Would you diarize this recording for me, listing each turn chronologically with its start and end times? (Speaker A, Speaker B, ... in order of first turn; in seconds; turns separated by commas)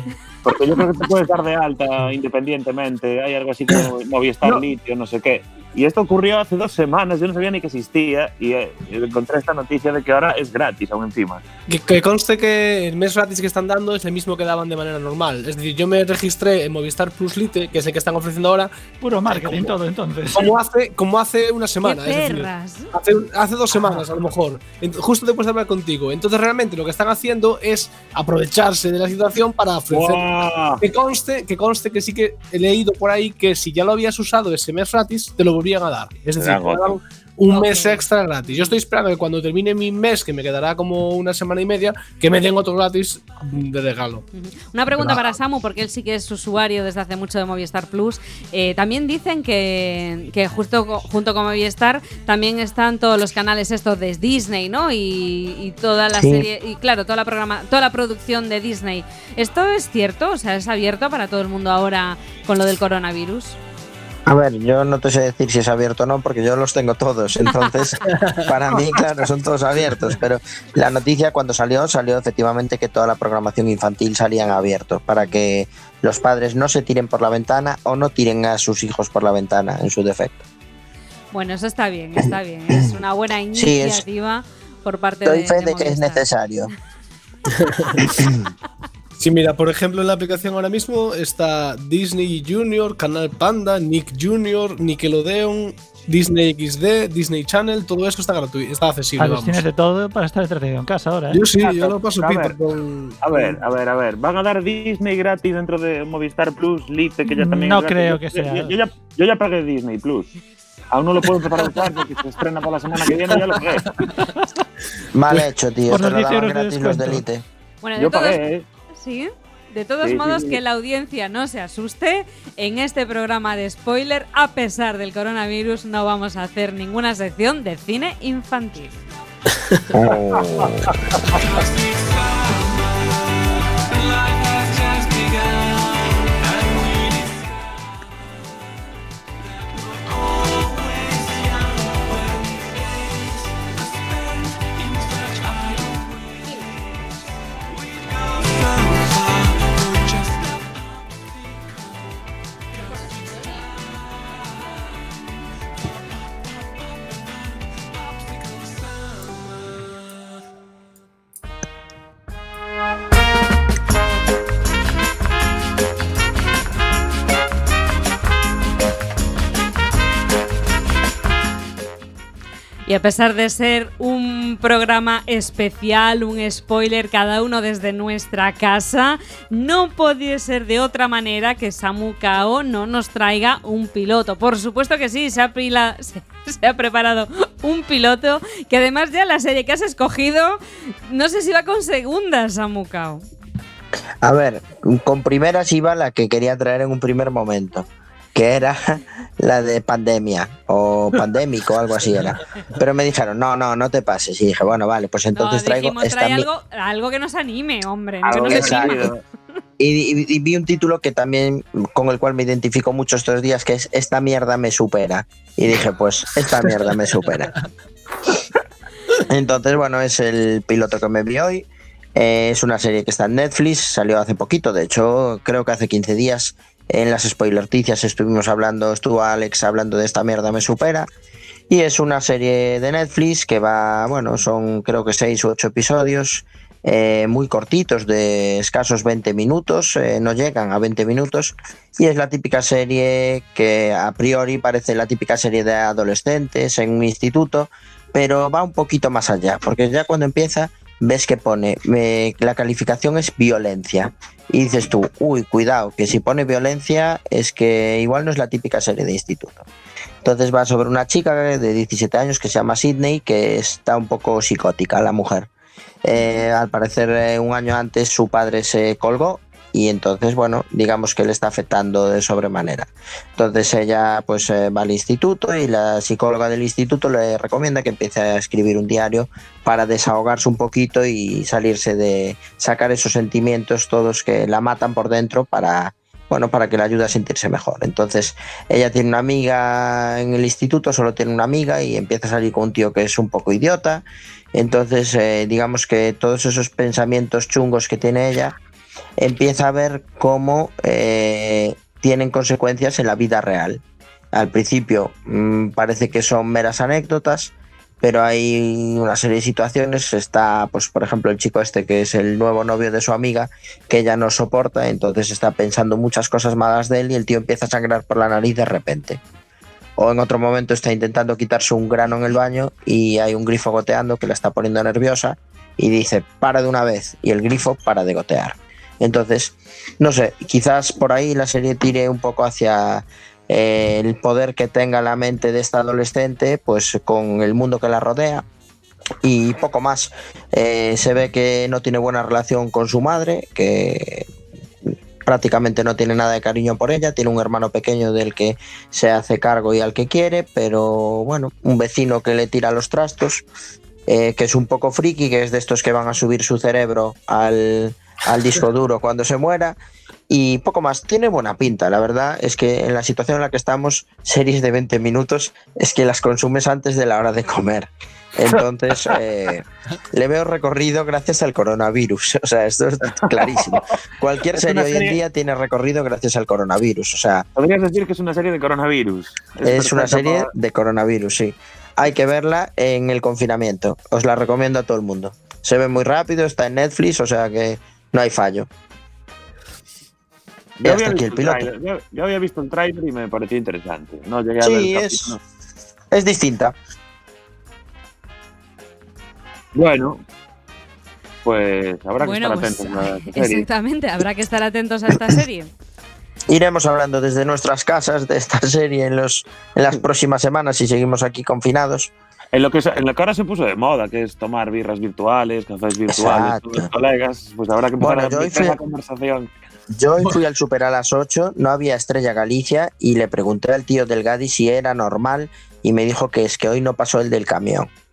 Speaker A: 0.4-11.4, Speaker B: 11.7-18.7, Speaker C: 19.0-20.5, Speaker B: 19.3-19.8, Speaker B: 20.3-44.2, Speaker D: 21.8-22.9, Speaker A: 29.9-30.8, Speaker A: 36.4-37.0, Speaker D: 37.5-38.8, Speaker D: 44.3-63.6, Speaker E: 56.2-56.5, Speaker E: 64.2-80.4, Speaker D: 67.4-67.8, Speaker D: 81.3-86.3, Speaker E: 83.5-84.0, Speaker E: 85.2-86.7, Speaker B: 87.6-88.2, Speaker B: 89.2-99.7, Speaker C: 99.2-101.5, Speaker B: 101.3-103.6, Speaker A: 101.6-102.6, Speaker A: 103.2-110.3, Speaker C: 107.3-108.7, Speaker A: 110.9-113.9, Speaker B: 113.1-113.6, Speaker E: 115.1-117.4, Speaker C: 115.9-117.2, Speaker D: 117.8-118.4, Speaker A: 118.0-118.7, Speaker D: 118.9-128.9, Speaker A: 120.0-120.6, Speaker E: 129.9-130.9, Speaker D: 172.8-193.2, Speaker E: 194.2-206.5, Speaker D: 205.3-209.1, Speaker A: 208.2-209.2, Speaker E: 208.4-209.1, Speaker E: 209.8-217.5, Speaker E: 219.3-231.1, Speaker E: 231.7-259.7, Speaker E: 260.2-265.5, Speaker E: 266.0-298.6, Speaker E: 299.2-303.8, Speaker E: 304.3-319.2, Speaker E: 320.0-338.4, Speaker E: 339.2-344.3, Speaker E: 344.9-353.4, Speaker E: 354.1-359.8, Speaker E: 360.3-377.4, Speaker A: 368.4-369.1, Speaker A: 373.4-373.8, Speaker A: 374.4-375.2, Speaker A: 377.6-380.5, Speaker E: 379.6-388.7, Speaker A: 390.8-395.4, Speaker E: 390.8-391.7, Speaker E: 394.6-395.3, Speaker E: 396.1-396.7, Speaker A: 399.7-400.2, Speaker A: 401.4-403.6, Speaker D: 402.2-405.7, Speaker E: 406.5-412.1, Speaker A: 412.5-419.5, Speaker E: 416.1-416.9, Speaker E: 418.0-418.8, Speaker E: 419.9-427.9